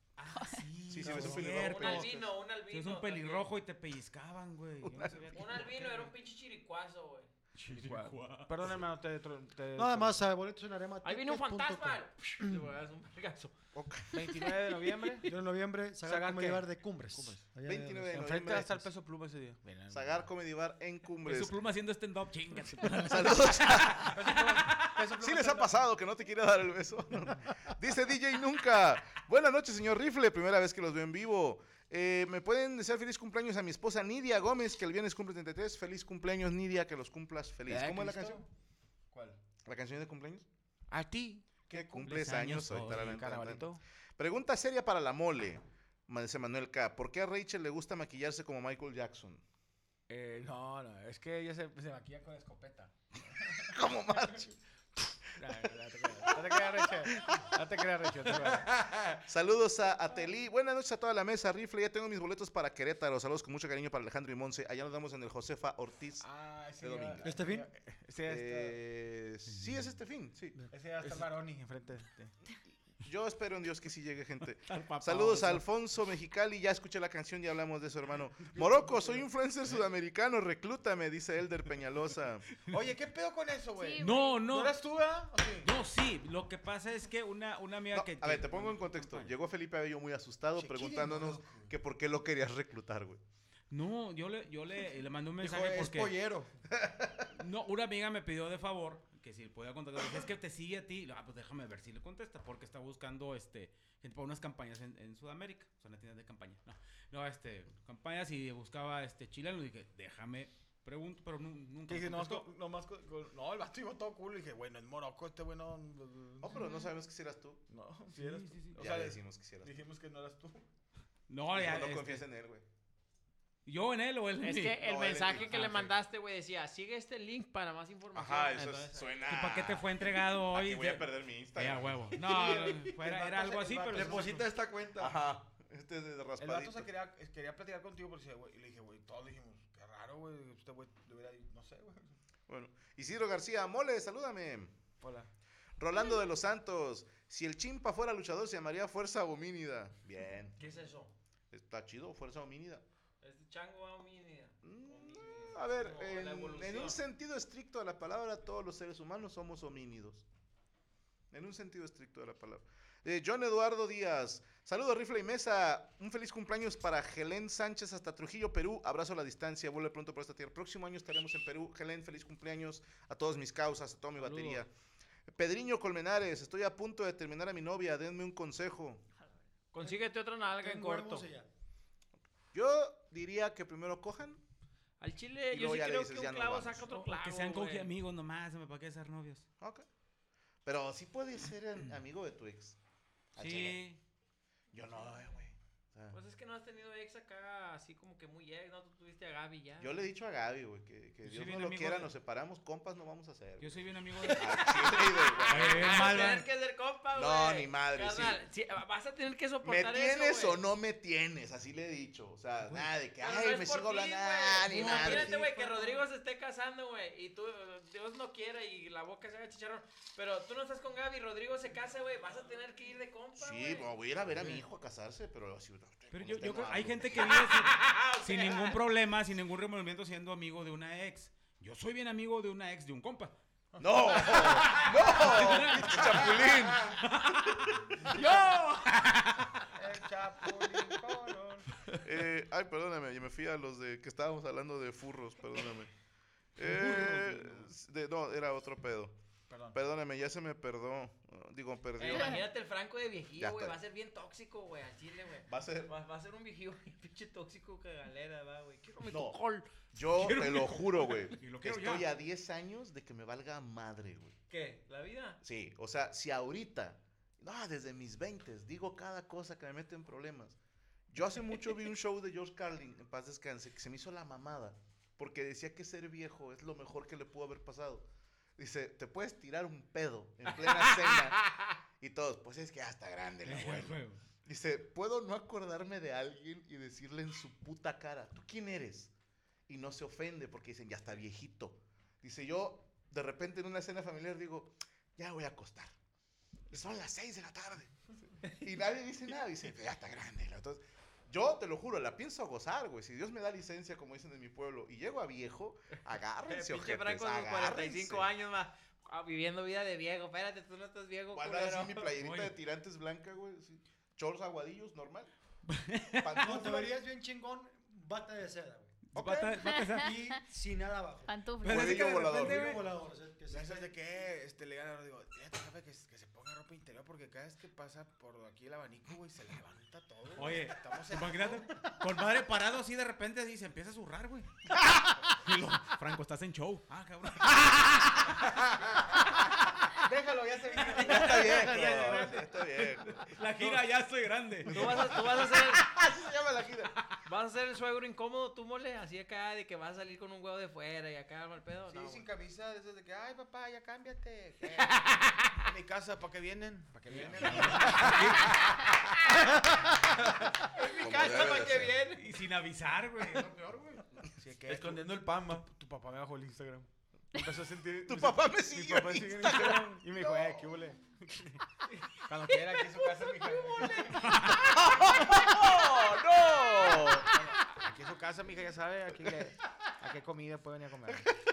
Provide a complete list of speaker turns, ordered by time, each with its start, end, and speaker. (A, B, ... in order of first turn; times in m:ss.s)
0:00.2-0:02.2 A
0:00.3-0:00.7 B
0:00.9-0:02.3 C
0:01.0-0:01.6 D
0:01.4-0:03.5 E
0:02.7-0:06.1 A
0:04.8-0:05.4 C
0:05.3-0:07.3 E
0:07.6-0:10.3 F
0:07.7-0:08.8 A
0:09.8-0:12.0 D
0:11.0-0:13.6 E
0:13.7-0:14.3 C
0:14.1-0:15.3 F
0:15.2-0:18.3 D
0:16.0-0:17.4 F
0:17.6-0:18.9 C
0:18.1-0:20.2 F
0:19.9-0:21.6 C
0:21.2-0:25.0 A
0:23.0-0:24.2 C
0:24.1-0:25.8 F
0:25.2-0:38.4 C
0:37.7-0:38.5 F
0:39.1-0:39.4 F
0:39.7-0:40.5 C
0:40.9-0:43.8 F
0:41.7-0:43.6 C
0:42.0-0:43.2 A
0:44.2-0:49.4 C
0:50.1-0:53.8 F
0:53.7-0:54.6 C
0:55.4-0:59.2 F
0:59.3-1:06.2 C
1:06.2-1:08.8 F
1:06.8-1:07.4 C
1:07.2-1:07.7 D
1:08.3-1:10.6 C
1:09.5-1:09.9 A
1:10.7-1:12.3 F
1:13.0-1:22.5 C
1:14.7-1:15.6 A
1:18.5-1:19.3 F
1:22.7-1:25.7 F
1:23.8-1:24.5 B
1:24.0-1:24.8 A
1:25.6-1:29.3 A
1:27.9-1:33.2 C
1:30.6-1:31.7 F
1:33.7-1:36.2 A
1:35.4-1:36.5 F
1:35.6-1:36.2 G
1:36.7-1:37.3 C
1:37.3-1:52.5 A
1:51.9-1:56.6 F
1:56.4-1:57.6 C
1:56.6-1:56.9 B
1:57.7-2:00.6 F
1:58.1-1:58.8 A
1:58.8-1:59.8 C
2:01.3-2:02.2 A
2:01.5-2:02.6 C
2:03.7-2:04.8 A
2:04.4-2:09.4 E
2:04.8-2:05.6 C
2:05.4-2:05.9 A
2:08.1-2:12.2 C
2:09.3-2:14.5 A
2:12.2-2:14.4 F
2:13.9-2:15.2 G
2:15.0-2:16.9 C
2:16.4-2:22.2 F
2:22.5-2:24.7 C
2:25.0-2:25.3 F
2:25.8-2:30.6 C
2:30.6-2:31.1 E
2:31.5-2:32.8 C
2:33.2-2:37.0 E
2:34.6-2:40.2 C
2:41.3-2:54.7 C
2:54.2-2:54.6 E
2:55.3-2:59.0 C
2:59.7-3:01.3 E
2:59.8-3:01.5 D
3:02.5-3:04.4 C
3:05.0-3:07.9 E
3:05.5-3:06.8 C
3:06.9-3:09.5 A
3:09.6-3:09.9 C
3:10.6-3:12.8 C
3:13.4-3:13.8 C
3:13.4-3:14.0 A
3:14.7-3:16.2 C
3:16.1-3:20.0 E
3:19.8-3:26.3 C
3:21.2-3:22.1 A
3:23.6-3:24.7 A
3:24.2-3:30.6 E
3:25.5-3:26.5 A
3:27.2-3:28.4 C
3:29.6-3:35.4 C
3:33.2-3:43.9 E
3:34.7-3:35.8 A
3:43.4-3:47.5 C
3:46.1-3:53.4 A
3:47.4-3:48.8 E
3:53.8-3:57.0 C
3:54.2-3:59.6 A
3:58.0-3:58.3 F
3:59.8-4:01.7 F
4:02.0-4:05.9 C
4:06.6-4:09.2 C
4:06.6-4:07.7 F
4:09.5-4:09.8 F
4:09.7-4:12.4 C
4:12.0-4:19.7 E
4:13.4-4:13.8 C
4:15.5-4:15.9 C
4:19.1-4:19.4 C
4:19.9-4:24.4 C
4:20.0-4:22.1 A
4:24.5-4:25.4 E
4:25.4-4:30.6 C
4:31.1-4:38.0 C
4:38.6-4:41.4 C
4:40.6-4:41.3 A
4:42.0-4:49.1 C
4:43.4-4:44.2 A
4:49.7-4:55.9 C
4:56.7-5:08.3 C
5:06.5-5:12.1 E
5:11.3-5:15.3 C
5:12.2-5:12.6 A
5:15.7-5:16.5 A
5:16.2-5:17.0 C
5:16.4-5:18.9 D
5:19.1-5:20.2 A
5:19.2-5:20.1 B
5:20.0-5:21.3 D
5:21.3-5:22.0 B
5:21.6-5:22.8 A
5:21.6-5:22.8 C
5:22.3-5:23.9 D
5:23.5-5:31.7 F
5:30.4-5:34.5 A
5:35.4-5:38.6 A
5:40.0-5:42.5 F
5:40.9-5:42.3 A
5:41.0-5:43.2 C
5:42.8-5:44.9 A
5:44.6-5:47.0 C
5:44.7-5:45.8 E
5:47.3-5:52.3 E
5:51.9-5:55.0 F
5:54.8-5:55.5 E
5:55.6-5:58.6 F
5:57.1-5:58.8 A
6:00.8-6:02.3 E
6:01.0-6:02.0 C
6:02.2-6:04.0 A
6:04.4-6:11.6 F
6:04.7-6:05.7 G
6:08.1-6:10.7 C
6:12.3-6:14.4 F
6:12.5-6:14.1 E
6:14.2-6:14.6 A
6:14.3-6:17.3 C
6:17.0-6:21.3 F